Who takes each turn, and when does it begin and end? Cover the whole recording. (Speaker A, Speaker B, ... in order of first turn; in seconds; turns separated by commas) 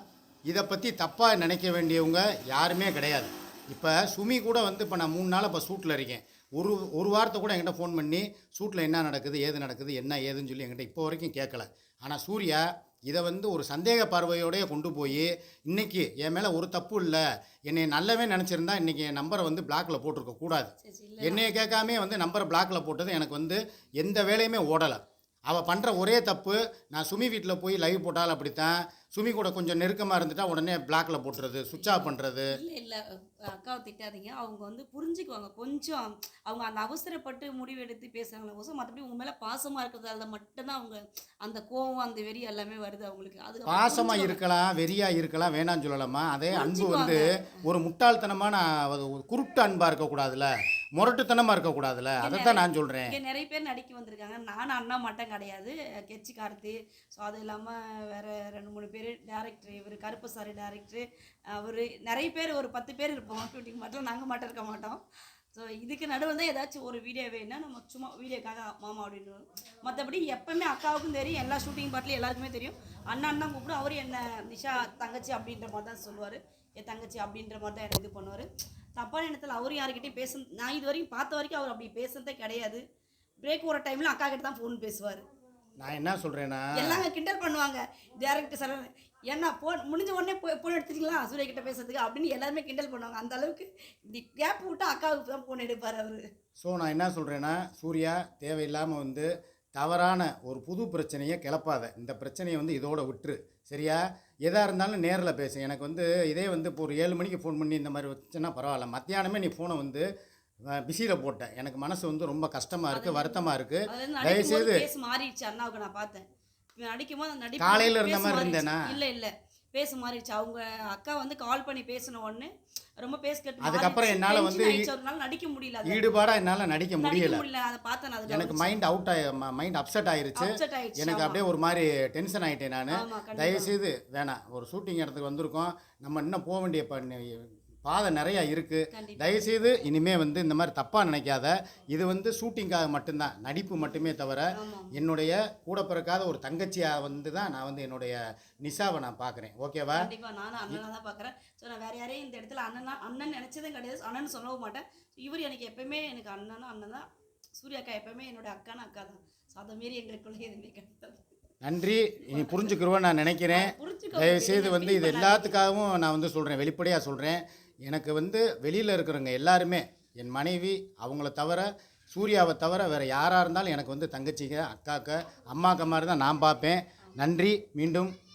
Speaker A: 0.5-20.7, Speaker B: 20.8-21.4, Speaker A: 21.2-32.5, Speaker B: 31.8-44.4, Speaker A: 43.7-53.1, Speaker B: 46.5-47.4, Speaker B: 52.2-82.8, Speaker B: 83.4-85.2, Speaker A: 85.8-87.0, Speaker B: 86.7-96.2, Speaker A: 96.6-110.1, Speaker A: 110.7-114.8, Speaker B: 112.9-116.2, Speaker B: 116.8-126.1, Speaker A: 117.6-118.9, Speaker A: 123.6-124.9, Speaker A: 125.9-127.4, Speaker B: 127.0-128.8, Speaker A: 128.3-150.1, Speaker B: 130.4-131.4, Speaker B: 132.9-133.7, Speaker B: 138.9-139.3, Speaker B: 144.6-145.0, Speaker B: 149.9-157.1, Speaker B: 157.6-161.3, Speaker A: 161.6-178.1, Speaker B: 162.3-162.8, Speaker B: 163.5-165.6